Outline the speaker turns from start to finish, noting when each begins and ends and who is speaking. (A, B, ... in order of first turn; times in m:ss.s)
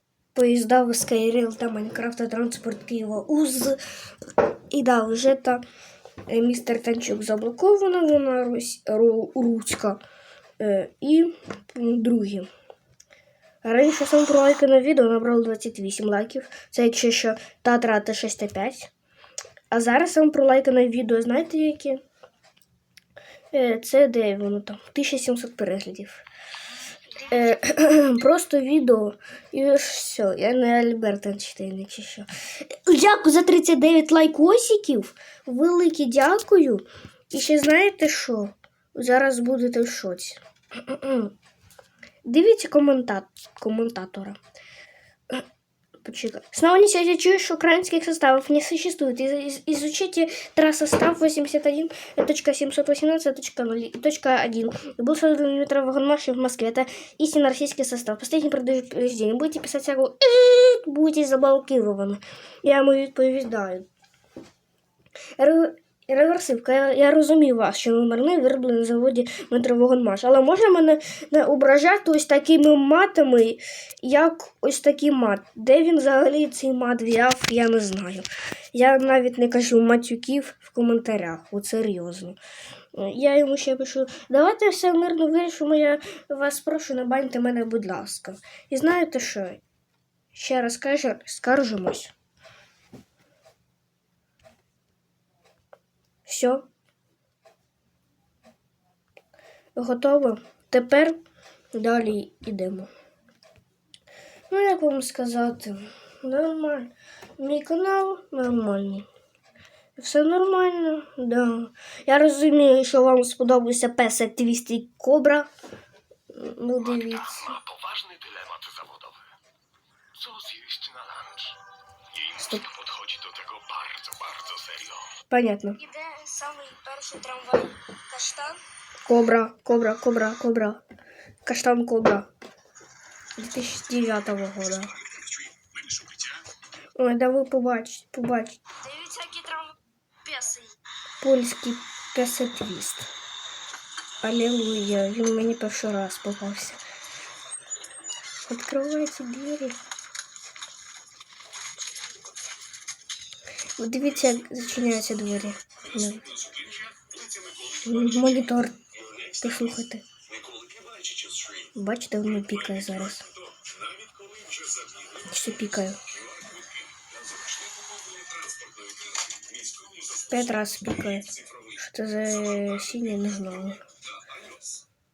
0:00.3-0:03.8 A
0:04.7-0:05.6 A
0:06.3-0:10.0 A
0:10.6-0:12.5 A
0:13.6-0:18.9 A
0:19.7-0:22.0 A
0:23.5-0:26.2 A
0:27.1-0:41.3 A
0:42.2-0:44.4 A
0:46.0-1:03.8 A
1:05.4-1:22.4 A
1:22.9-1:29.6 A
1:30.3-1:32.1 A
1:36.2-1:36.6 A
1:39.7-1:41.2 A
1:41.7-1:42.9 A
1:44.5-1:49.1 A
1:50.0-1:55.5 A
1:56.3-1:57.6 A
1:57.5-1:59.2 B
2:00.1-2:01.6 B
2:02.1-2:05.2 B
2:02.3-2:02.7 A
2:05.3-2:05.9 A
2:05.9-2:08.6 C
2:09.0-2:10.8 A
2:11.4-2:12.3 A
2:13.4-2:15.0 A
2:15.2-2:16.4 B
2:17.0-2:18.8 A
2:18.8-2:20.8 C
2:21.2-2:23.1 A
2:24.2-2:26.8 A
2:28.4-2:29.8 A
2:33.8-2:36.4 A
2:36.3-2:37.9 B
2:37.8-2:38.8 A
2:39.4-2:40.0 A
2:40.3-2:41.7 B
2:41.7-2:43.3 A
2:43.4-2:45.2 B
2:45.2-2:46.0 A
2:46.3-2:50.3 B
2:50.3-2:53.8 A